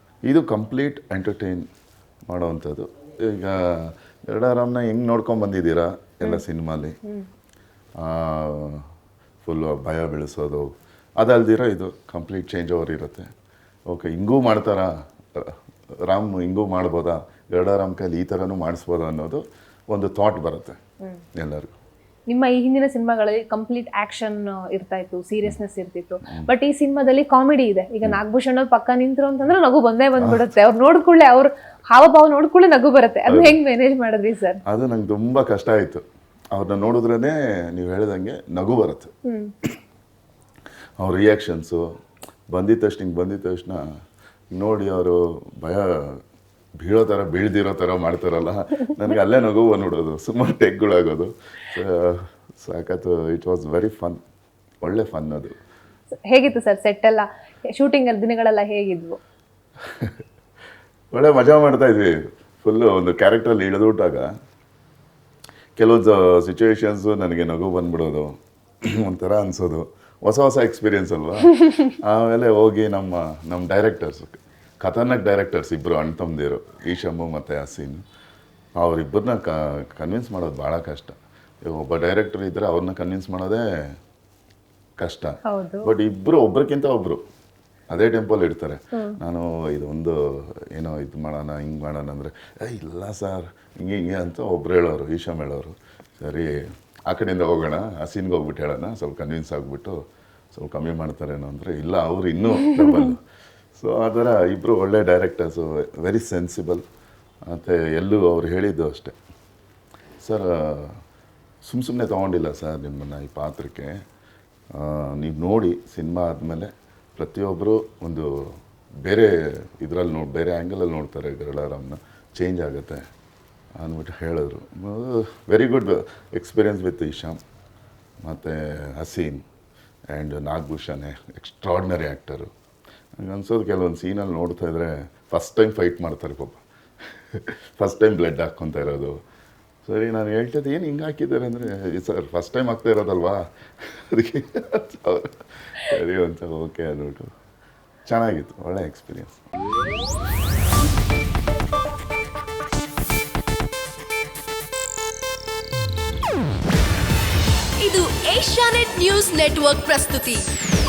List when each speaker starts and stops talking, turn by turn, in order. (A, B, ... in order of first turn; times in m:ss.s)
0:00.3-0:01.6 A
0:02.3-0:06.9 A
0:08.0-0:08.9 A
0:09.4-0:13.3 A
0:13.9-0:20.8 A
0:21.4-0:21.7 A
0:22.3-0:34.6 B
0:26.2-0:26.5 A
0:33.3-0:33.6 A
0:34.7-0:39.1 A
0:39.2-0:39.5 B
0:41.0-0:41.9 A
0:42.5-0:43.8 A
0:44.5-0:46.2 A
0:46.8-0:54.2 A
0:54.8-0:55.6 A
0:56.2-0:59.2 B
0:59.8-1:00.2 A
1:01.1-1:04.3 A
1:05.8-1:18.0 A
1:18.8-1:23.6 A
1:25.0-1:27.2 A
1:25.4-1:25.9 B
1:27.9-1:40.0 A
1:40.5-1:43.2 A
1:43.7-1:46.8 A
1:47.5-1:49.1 A
1:50.2-1:51.0 A
1:51.6-1:54.0 A
1:54.7-2:03.0 A
2:03.8-2:07.4 A
2:08.2-2:09.4 A
2:10.1-2:12.5 A
2:13.2-2:16.6 A
2:17.3-2:19.2 A
2:19.8-2:27.3 A
2:28.0-2:29.4 A
2:37.8-2:40.4 C